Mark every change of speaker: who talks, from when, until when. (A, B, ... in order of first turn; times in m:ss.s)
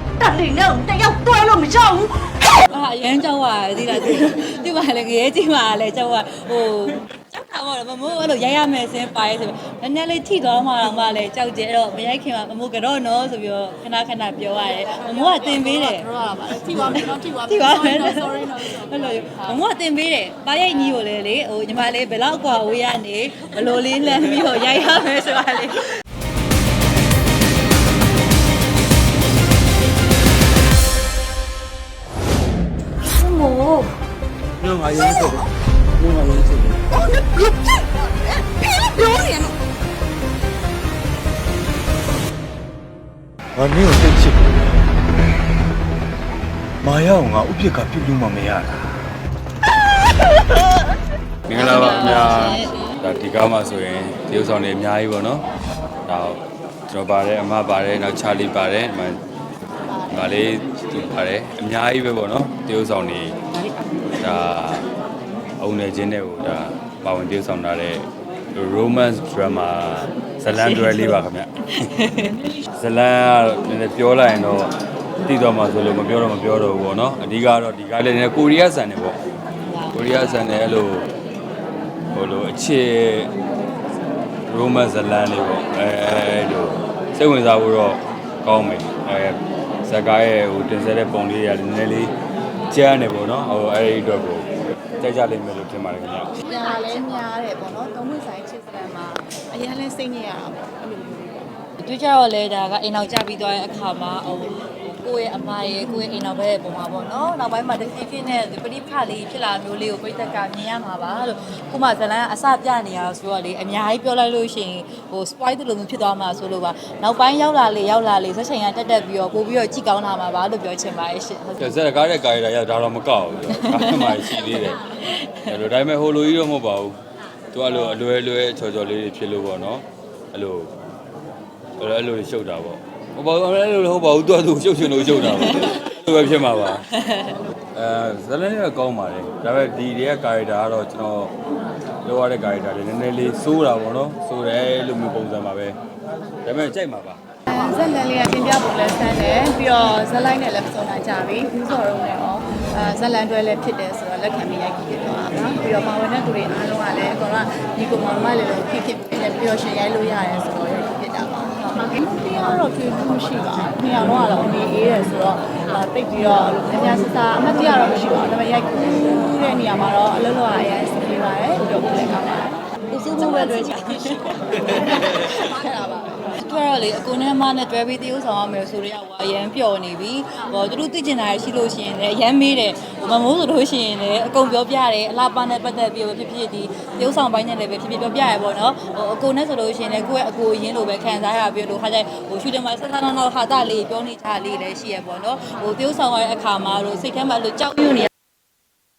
0:00.2-0:02.3 A
0:02.7-0:16.1 B
0:14.7-0:19.6 C
0:16.9-0:25.9 B
0:33.1-0:33.9 A
0:34.6-0:35.3 D
0:36.0-0:36.8 D
0:36.9-0:39.6 A
0:43.6-0:44.5 D
0:46.8-0:49.0 D
0:51.5-0:55.4 E
0:51.5-0:53.0 C
0:51.6-0:52.7 B
0:56.0-0:59.2 E
1:00.1-1:03.4 E
1:04.2-1:04.9 E
1:05.6-1:11.5 E
1:10.5-1:11.2 B
1:11.9-1:12.3 B
1:12.7-1:19.2 E
1:19.6-1:20.5 B
1:19.9-1:21.1 E
1:22.1-1:23.3 E
1:24.5-1:32.1 E
1:32.7-1:34.4 E
1:35.0-1:36.4 E
1:36.4-1:41.5 C
1:41.8-2:01.7 B
2:01.6-2:04.8 E
2:03.5-2:05.6 B
2:05.4-2:07.0 E
2:07.5-2:10.7 E
2:07.7-2:08.0 B
2:11.8-2:16.8 E
2:15.5-2:15.8 B
2:16.9-2:17.3 B
2:17.7-2:21.3 E
2:22.0-2:25.8 E
2:26.4-2:27.2 E
2:27.5-2:52.7 C
2:52.9-2:55.3 B
2:53.2-2:56.4 C
2:56.4-3:18.1 B